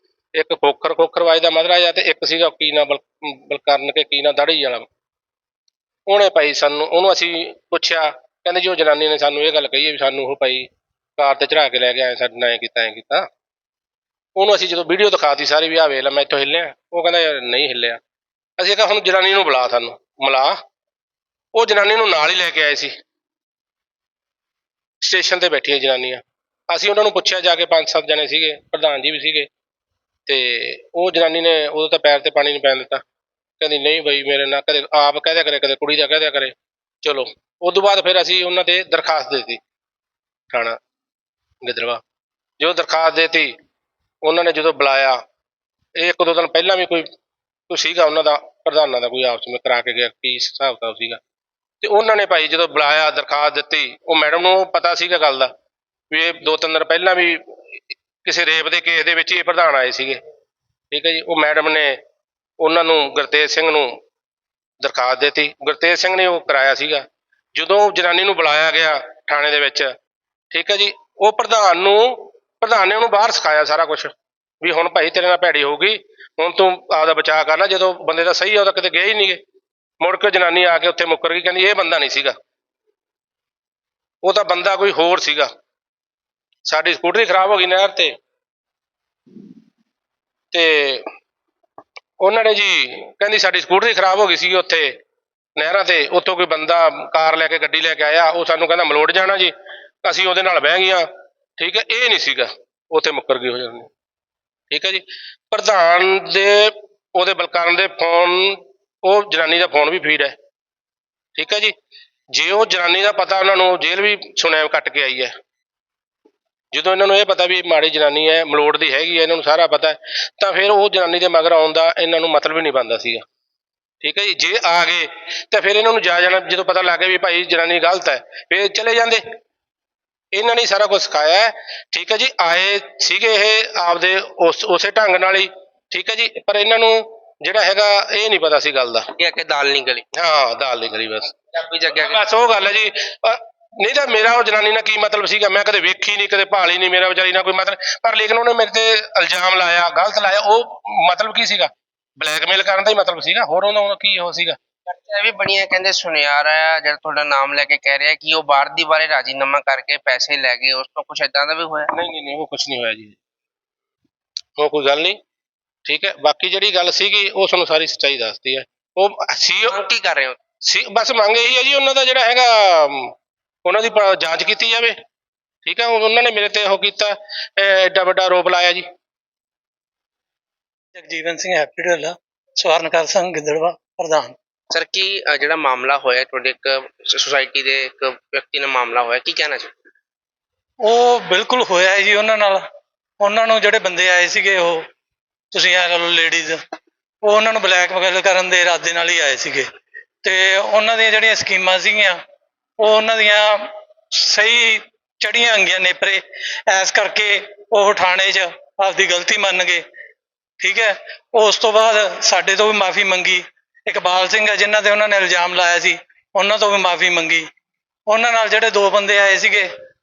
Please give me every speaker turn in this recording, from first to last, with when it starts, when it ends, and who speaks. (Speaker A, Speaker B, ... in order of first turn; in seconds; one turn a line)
Speaker A: 0.3-4.9
Speaker A: 6.1-13.3
Speaker A: 14.4-18.0
Speaker A: 18.6-20.6
Speaker A: 21.5-22.9
Speaker A: 25.0-29.5
Speaker A: 30.2-33.0
Speaker A: 33.6-39.6
Speaker A: 40.5-40.8
Speaker A: 41.6-42.0
Speaker A: 42.6-43.5
Speaker A: 44.2-45.2
Speaker A: 46.0-47.1
Speaker A: 47.7-51.2
Speaker A: 51.8-55.5
Speaker A: 56.1-57.4
Speaker A: 58.2-60.2
Speaker A: 60.9-62.0
Speaker A: 62.6-64.0
Speaker A: 64.8-69.9
Speaker A: 70.5-79.4
Speaker A: 80.0-82.3
Speaker A: 84.2-85.5
Speaker A: 86.7-88.2
Speaker A: 90.5-91.1
Speaker A: 92.2-94.9
Speaker A: 95.6-103.9
Speaker A: 104.7-110.4
Speaker A: 111.3-111.8
Speaker A: 112.3-115.3
Speaker A: 116.7-123.2
Speaker A: 124.0-129.2
Speaker A: 130.3-139.1
Speaker B: 139.2-140.0
Speaker A: 140.1-141.3
Speaker B: 141.5-142.2
Speaker A: 141.9-154.6
Speaker B: 154.9-161.9
Speaker A: 161.9-163.2
Speaker A: 164.6-165.2
Speaker A: 165.9-169.8
Speaker B: 169.7-170.4
Speaker A: 170.6-173.1
Speaker A: 173.6-174.9
Speaker A: 175.6-178.9
Speaker C: 180.9-184.3
Speaker B: 184.7-189.8
Speaker C: 190.8-192.6
Speaker C: 193.2-194.8
Speaker C: 195.5-196.6
Speaker C: 197.2-199.6
Speaker C: 200.2-202.2
Speaker C: 202.8-203.6
Speaker C: 204.1-209.8
Speaker C: 210.6-217.5
Speaker C: 218.1-219.7